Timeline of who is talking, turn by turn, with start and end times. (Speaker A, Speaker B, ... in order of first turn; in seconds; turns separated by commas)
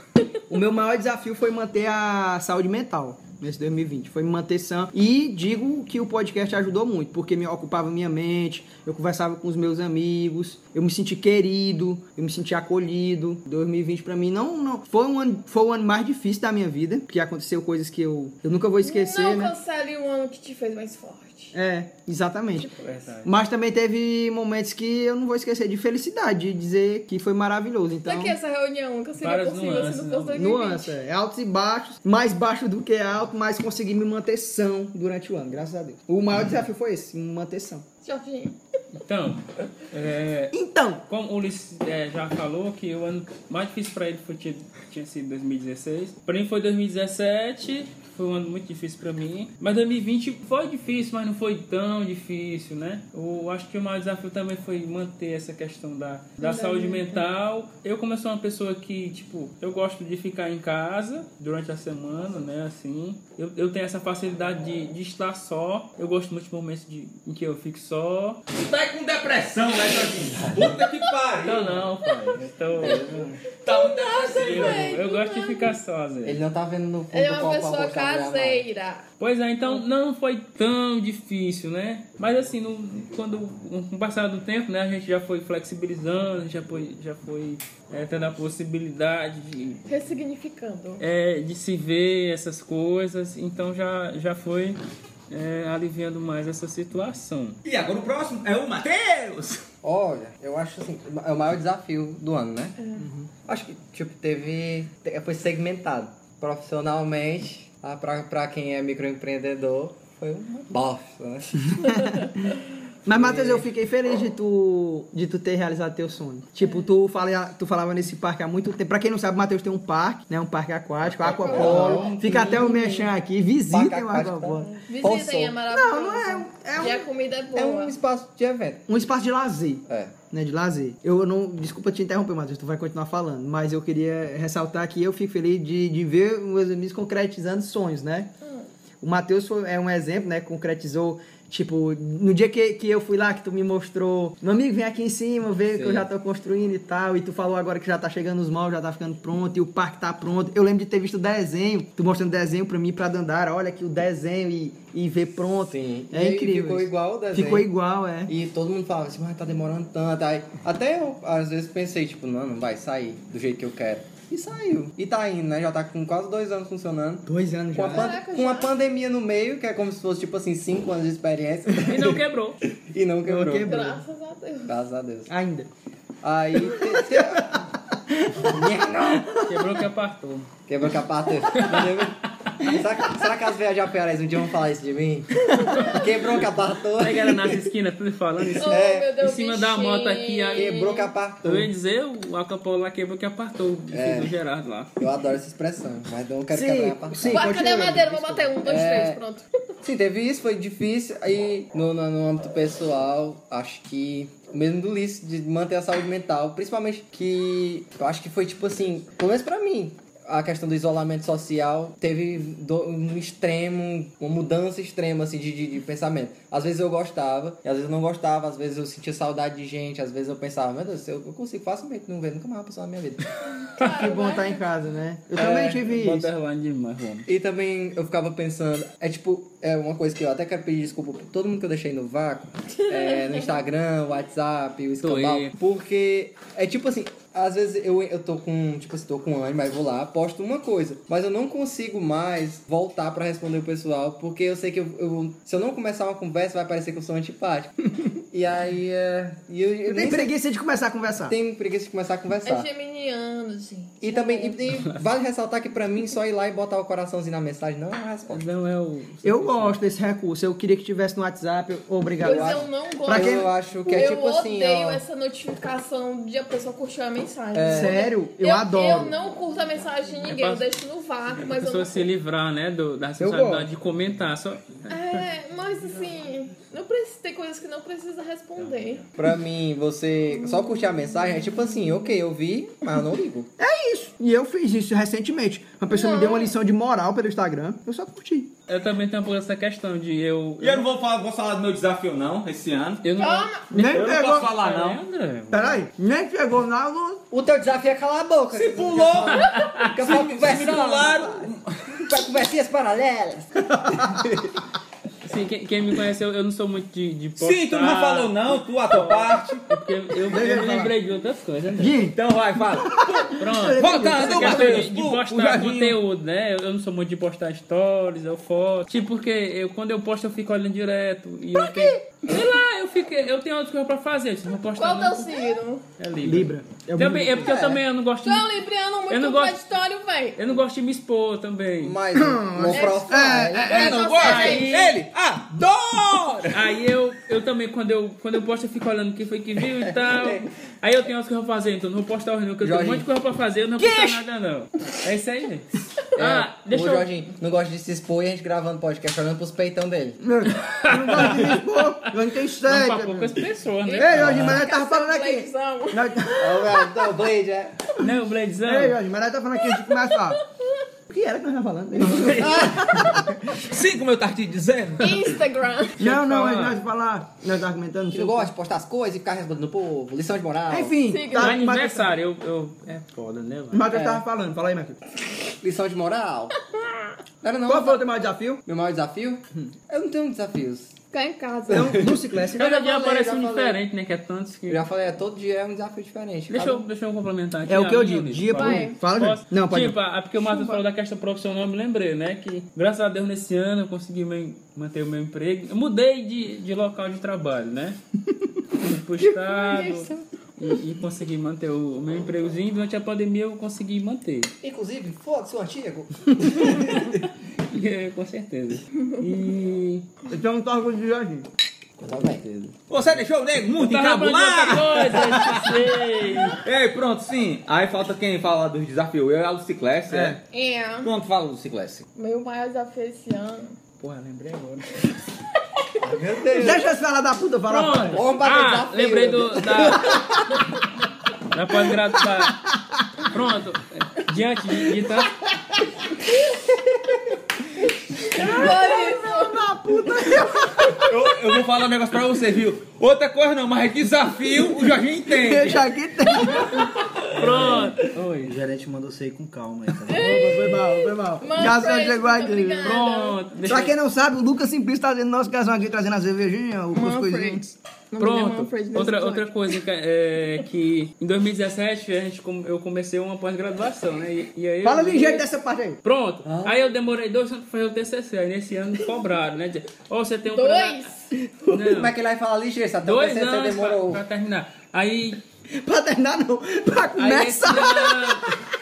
Speaker A: 0.5-19.5, Speaker B: 18.8-21.5, Speaker A: 21.5-22.7, Speaker C: 22.6-23.3, Speaker A: 23.2-28.4, Speaker B: 28.1-30.9, Speaker C: 29.2-30.4, Speaker A: 30.3-37.8, Speaker B: 38.0-38.5, Speaker C: 38.9-40.5, Speaker A: 40.5-41.0, Speaker C: 41.1-68.4, Speaker B: 56.4-57.2, Speaker D: 68.5-71.8, Speaker C: 71.4-73.0, Speaker E: 72.8-73.4, Speaker D: 73.6-75.0, Speaker B: 73.7-75.7, Speaker C: 74.4-76.4, Speaker E: 76.2-78.7, Speaker B: 77.1-79.0, Speaker C: 79.2-89.8, Speaker B: 89.9-91.0, Speaker C: 91.0-94.8, Speaker C: 95.3-97.6, Speaker D: 97.6-99.6, Speaker E: 99.8-102.8, Speaker B: 102.8-103.1, Speaker A: 103.0-103.2, Speaker E: 103.4-111.7, Speaker A: 113.0-124.7, Speaker E: 113.1-113.7, Speaker E: 121.2-122.7, Speaker B: 121.4-122.2, Speaker E: 123.7-125.5, Speaker B: 124.8-127.9, Speaker A: 125.7-127.1, Speaker E: 127.5-128.9, Speaker A: 128.9-138.3, Speaker E: 129.9-130.2, Speaker A: 139.0-158.3, Speaker E: 145.8-146.0, Speaker E: 155.7-157.7, Speaker E: 158.2-172.2, Speaker A: 167.2-168.1, Speaker B: 167.9-168.7, Speaker C: 171.8-172.6, Speaker E: 172.9-173.9, Speaker A: 173.2-174.0, Speaker B: 173.6-174.7, Speaker E: 174.7-175.3, Speaker A: 175.3-175.7, Speaker E: 176.2-177.6, Speaker A: 176.6-177.6, Speaker E: 178.4-179.4, Speaker C: 179.4-180.5, Speaker E: 180.7-187.5, Speaker C: 181.5-182.1, Speaker A: 185.5-185.8, Speaker C: 187.0-190.8, Speaker B: 188.6-191.1, Speaker E: 188.7-189.1, Speaker E: 190.5-191.7, Speaker C: 191.4-194.9, Speaker E: 193.9-194.3, Speaker E: 195.0-197.7, Speaker A: 196.5-198.5, Speaker B: 197.3-199.4, Speaker E: 198.6-199.2, Speaker E: 199.8-223.2, Speaker B: 223.6-224.6, Speaker A: 223.8-226.3, Speaker C: 225.3-227.3, Speaker E: 227.3-250.3, Speaker B: 232.9-233.5, Speaker C: 235.0-235.5, Speaker A: 249.8-251.3, Speaker E: 251.3-252.7, Speaker B: 252.4-254.6, Speaker E: 254.0-258.5, Speaker C: 258.3-259.8, Speaker A: 259.2-263.5, Speaker E: 262.2-265.0, Speaker B: 262.2-272.1, Speaker E: 267.5-268.0, Speaker A: 267.6-269.1, Speaker C: 270.2-270.7, Speaker C: 271.4-274.9, Speaker A: 273.2-273.7, Speaker B: 274.9-279.1, Speaker E: 279.2-283.5, Speaker A: 283.6-288.5, Speaker B: 285.9-286.5, Speaker C: 288.7-290.9, Speaker D: 290.6-293.0, Speaker C: 293.0-295.8, Speaker B: 293.2-293.7, Speaker A: 293.7-294.5, Speaker D: 293.7-295.0, Speaker A: 295.5-297.2, Speaker E: 297.3-301.3, Speaker D: 298.5-302.0, Speaker C: 299.4-299.9, Speaker E: 302.0-304.4, Speaker A: 303.7-304.1, Speaker C: 305.2-312.0, Speaker D: 307.4-309.7, Speaker A: 310.3-310.9, Speaker A: 311.8-314.9, Speaker D: 312.1-316.0, Speaker C: 313.4-325.4, Speaker A: 321.5-322.0, Speaker B: 324.8-325.8, Speaker C: 326.0-328.5, Speaker A: 326.2-327.8, Speaker B: 328.2-330.4, Speaker C: 329.1-329.6, Speaker C: 330.4-332.0, Speaker E: 331.8-334.0, Speaker A: 332.1-333.7, Speaker B: 332.7-334.9, Speaker D: 333.6-336.6, Speaker C: 334.2-334.8, Speaker C: 336.5-347.1, Speaker E: 340.0-340.4, Speaker E: 342.6-343.1, Speaker A: 343.8-344.2, Speaker E: 346.1-350.2, Speaker A: 350.2-353.3, Speaker C: 350.8-352.1, Speaker C: 352.6-354.6, Speaker B: 353.9-356.1, Speaker A: 354.0-357.1, Speaker E: 356.4-357.9, Speaker C: 358.0-359.0, Speaker A: 358.6-360.4, Speaker A: 361.1-363.4, Speaker E: 362.4-362.8, Speaker D: 363.5-365.3, Speaker B: 365.0-366.0, Speaker C: 366.0-366.8, Speaker A: 366.0-368.5, Speaker E: 368.1-371.0, Speaker A: 370.7-372.1, Speaker B: 371.0-371.6, Speaker C: 371.4-374.2, Speaker A: 373.7-375.0, Speaker E: 375.6-376.6, Speaker E: 377.4-380.9, Speaker A: 377.6-378.6, Speaker B: 381.1-382.0, Speaker A: 381.7-382.9, Speaker E: 381.7-383.8, Speaker C: 382.5-384.8, Speaker E: 384.7-386.8, Speaker C: 386.5-398.0, Speaker A: 387.7-390.0, Speaker B: 388.5-389.0, Speaker B: 390.5-390.8, Speaker C: 398.7-404.5, Speaker B: 399.5-400.2, Speaker E: 404.6-407.2, Speaker C: 406.7-407.1, Speaker C: 407.7-410.1, Speaker A: 410.3-411.5, Speaker E: 412.0-412.7, Speaker D: 412.9-415.7, Speaker C: 413.8-416.6, Speaker D: 416.6-420.4, Speaker A: 420.1-420.4, Speaker B: 420.5-421.1, Speaker D: 421.0-422.1, Speaker B: 422.1-423.8, Speaker A: 424.0-424.8, Speaker E: 426.0-426.8, Speaker A: 426.5-428.2, Speaker C: 427.7-430.2, Speaker E: 428.1-430.3, Speaker C: 431.5-432.6, Speaker C: 433.2-435.4, Speaker B: 438.3-439.6, Speaker A: 438.3-441.1, Speaker D: 441.0-445.8, Speaker A: 445.3-446.9, Speaker C: 447.3-448.5, Speaker F: 447.3-450.7, Speaker B: 450.1-453.4, Speaker A: 450.1-453.0, Speaker C: 452.8-453.9, Speaker A: 453.7-457.8, Speaker B: 456.9-459.7, Speaker C: 458.2-465.4, Speaker A: 464.8-466.0, Speaker C: 466.0-471.1, Speaker E: 466.4-466.7, Speaker B: 470.5-471.3, Speaker C: 471.7-472.1, Speaker E: 471.7-474.2, Speaker C: 473.0-475.4, Speaker A: 475.7-478.6, Speaker C: 477.2-478.5